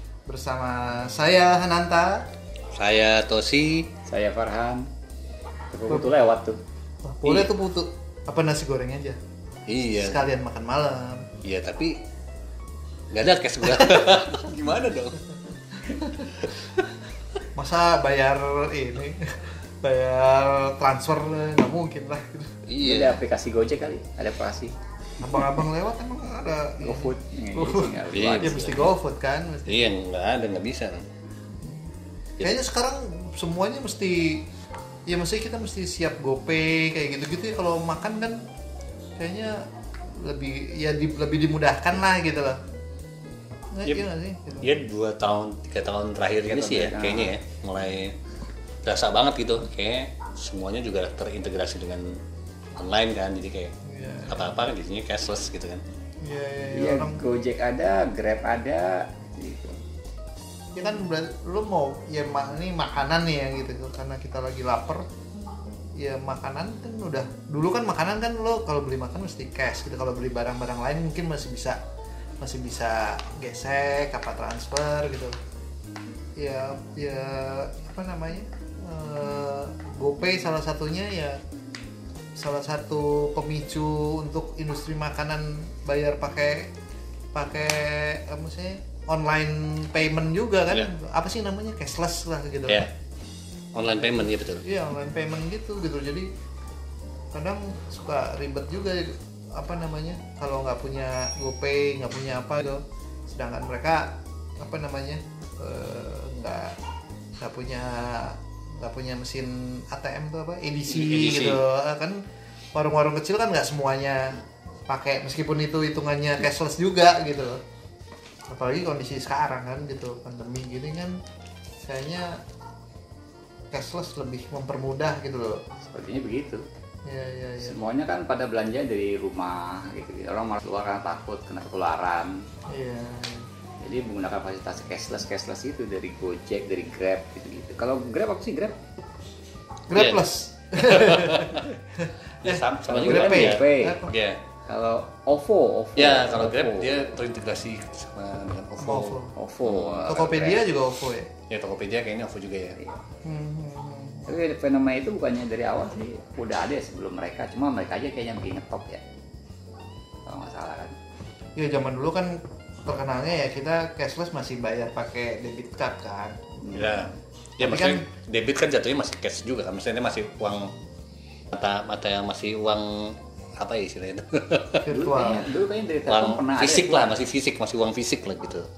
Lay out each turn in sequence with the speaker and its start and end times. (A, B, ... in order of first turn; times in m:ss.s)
0:00.3-0:02.2 A
0:02.7-0:03.9 B
0:04.1-0:04.9 C
0:05.7-0:06.6 C
0:07.0-0:09.2 A
0:09.7-0:10.2 B
0:09.9-0:11.3 A
0:11.4-0:12.0 B
0:13.1-0:15.2 B
0:13.7-0:14.1 A
0:15.9-0:16.3 A
0:17.5-0:22.6 A
0:22.7-0:23.2 B
0:22.8-0:24.7 C
0:25.2-0:29.9 A
0:26.8-0:28.7 C
0:28.1-0:28.9 B
0:29.7-0:31.0 B
0:31.6-0:31.9 A
0:32.4-0:34.4 A
0:35.1-0:38.4 A
0:39.2-0:42.6 A
0:43.7-0:44.8 A
0:44.6-0:48.2 B
0:46.5-0:47.3 C
0:48.8-0:52.2 B
0:52.8-0:53.7 B
0:53.8-0:54.5 A
0:54.3-0:55.8 B
0:56.2-0:57.2 A
0:56.7-0:59.8 C
1:00.7-1:05.0 A
1:06.0-1:11.8 A
1:12.4-1:15.3 A
1:16.4-1:21.4 A
1:22.4-1:26.7 A
1:27.3-1:32.8 A
1:33.7-1:34.6 B
1:34.0-1:36.3 A
1:37.3-1:46.8 A
1:47.4-1:52.2 A
1:50.9-1:51.6 B
1:52.7-1:57.6 A
1:58.5-2:01.2 A
2:01.8-2:02.4 A
2:03.7-2:05.6 A
2:05.9-2:06.6 C
2:07.0-2:07.8 A
2:07.6-2:12.4 C
2:12.7-2:13.5 A
2:13.8-2:18.8 C
2:19.9-2:24.1 A
2:19.9-2:20.2 B
2:20.8-2:21.7 B
2:22.4-2:24.4 B
2:22.9-2:24.0 C
2:24.6-2:27.1 C
2:26.0-2:30.1 B
2:28.8-2:29.3 A
2:29.3-2:30.6 C
2:30.1-2:31.3 A
2:31.5-2:32.8 B
2:33.2-2:34.2 A
2:34.2-2:39.0 C
2:40.2-2:41.0 C
2:41.6-2:46.6 A
2:46.6-2:47.1 C
2:46.7-2:50.7 B
2:47.6-2:48.0 A
2:51.5-2:54.8 B
2:54.8-2:55.5 A
2:54.9-2:57.2 C
2:56.1-2:58.7 B